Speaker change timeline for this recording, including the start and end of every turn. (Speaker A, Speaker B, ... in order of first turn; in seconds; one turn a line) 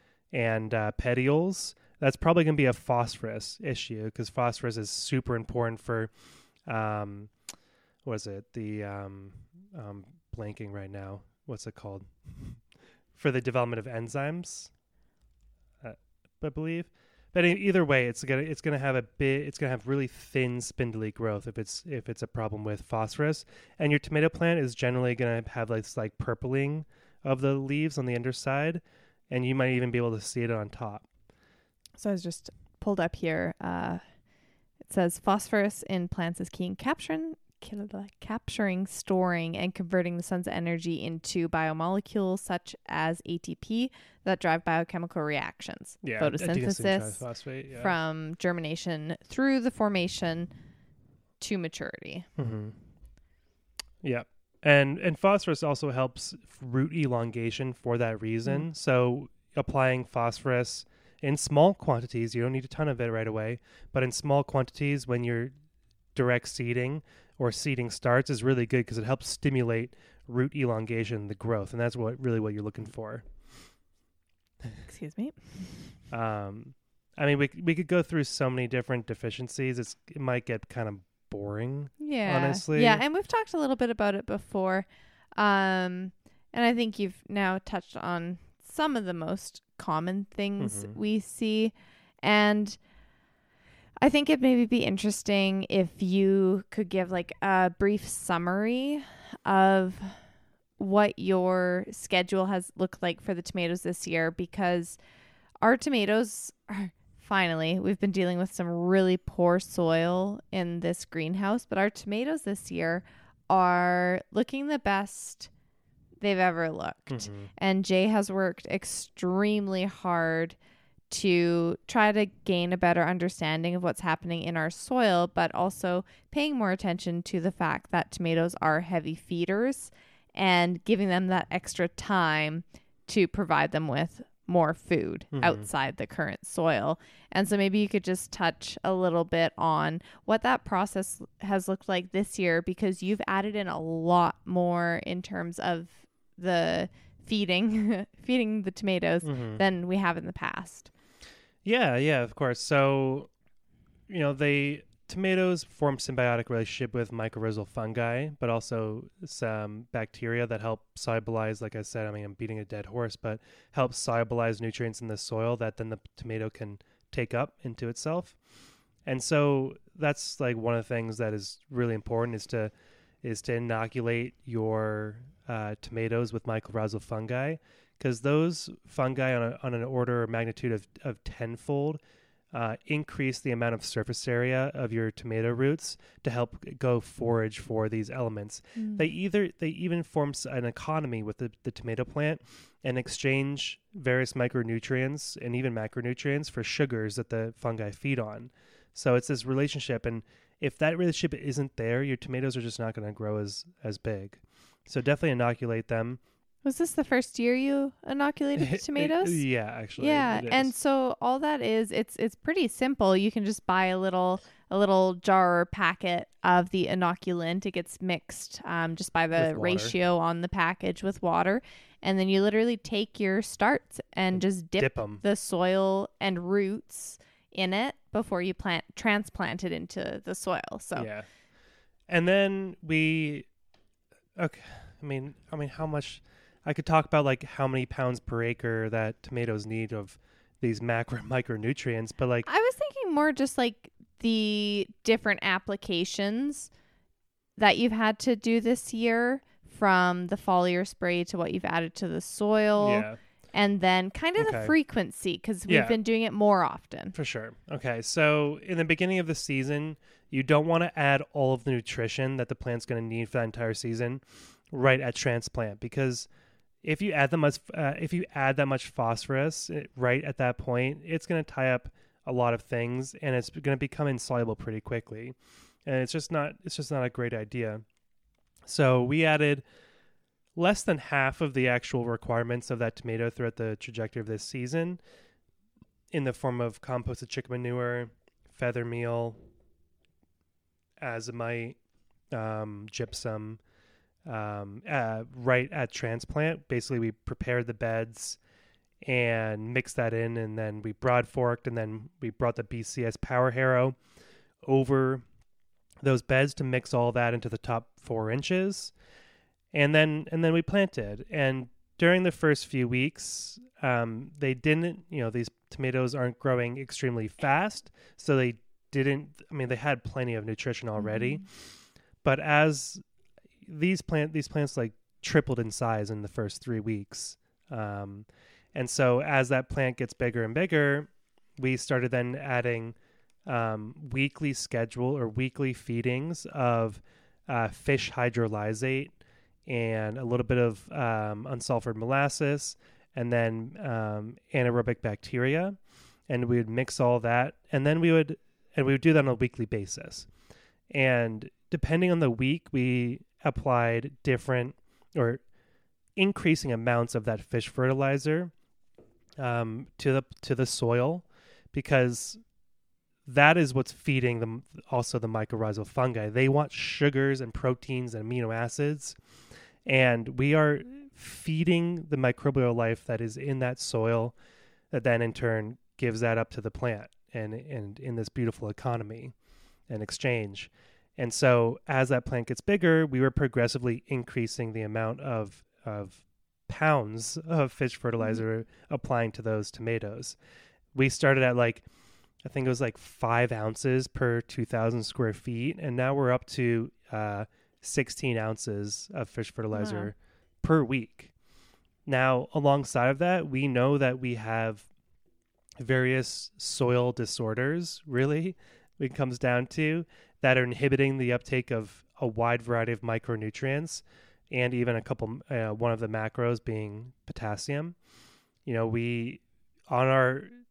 Speaker A: 0.3-6.1
Speaker A: 6.7-7.3
Speaker A: 8.0-12.6
Speaker A: 13.2-14.7
Speaker A: 15.8-31.1
Speaker B: 32.0-34.0
Speaker B: 34.9-50.5
Speaker A: 46.0-47.9
Speaker B: 51.4-52.3
Speaker A: 52.4-52.8
Speaker A: 54.0-65.5
Speaker A: 66.1-73.3
Speaker B: 74.9-75.9
Speaker A: 76.1-83.0
Speaker B: 82.0-92.8
Speaker A: 90.6-91.0
Speaker B: 94.0-100.2
Speaker B: 100.8-105.0
Speaker B: 105.6-115.5
Speaker B: 116.2-120.6
Speaker A: 117.1-117.5
Speaker B: 121.1-150.9
Speaker A: 135.3-135.7
Speaker A: 149.2-149.6
Speaker A: 151.6-153.3
Speaker A: 154.1-168.4
Speaker A: 169.1-172.7
Speaker A: 173.2-182.0
Speaker A: 182.5-206.2
Speaker B: 188.8-189.1
Speaker B: 206.7-209.4
Speaker A: 208.6-210.7
Speaker B: 210.0-231.1
Speaker A: 219.3-219.9
Speaker A: 224.3-225.2
Speaker A: 231.0-231.3
Speaker A: 232.1-233.5
Speaker A: 234.4-242.5
Speaker B: 242.5-246.7
Speaker B: 247.6-257.1
Speaker A: 252.8-253.2
Speaker A: 254.4-254.7
Speaker A: 255.7-256.0
Speaker A: 257.1-266.3
Speaker A: 266.8-277.8
Speaker A: 278.7-279.6
Speaker A: 280.6-285.0
Speaker A: 286.1-289.4
Speaker A: 291.0-291.8
Speaker A: 292.3-293.6
Speaker A: 294.3-298.4
Speaker A: 299.0-304.0
Speaker A: 304.6-305.2
Speaker A: 306.0-308.9
Speaker A: 309.7-321.5
Speaker B: 321.0-321.4
Speaker A: 322.2-323.0
Speaker A: 323.6-339.1
Speaker A: 339.7-345.8
Speaker A: 346.3-350.3
Speaker A: 350.9-355.4
Speaker A: 356.2-358.5
Speaker A: 359.4-362.4
Speaker A: 363.3-369.2
Speaker A: 369.9-374.4
Speaker A: 374.9-379.3
Speaker A: 379.9-390.4
Speaker A: 390.9-391.9
Speaker A: 392.4-401.3
Speaker B: 399.7-400.1
Speaker A: 402.1-404.9
Speaker A: 405.8-417.9
Speaker A: 418.7-420.5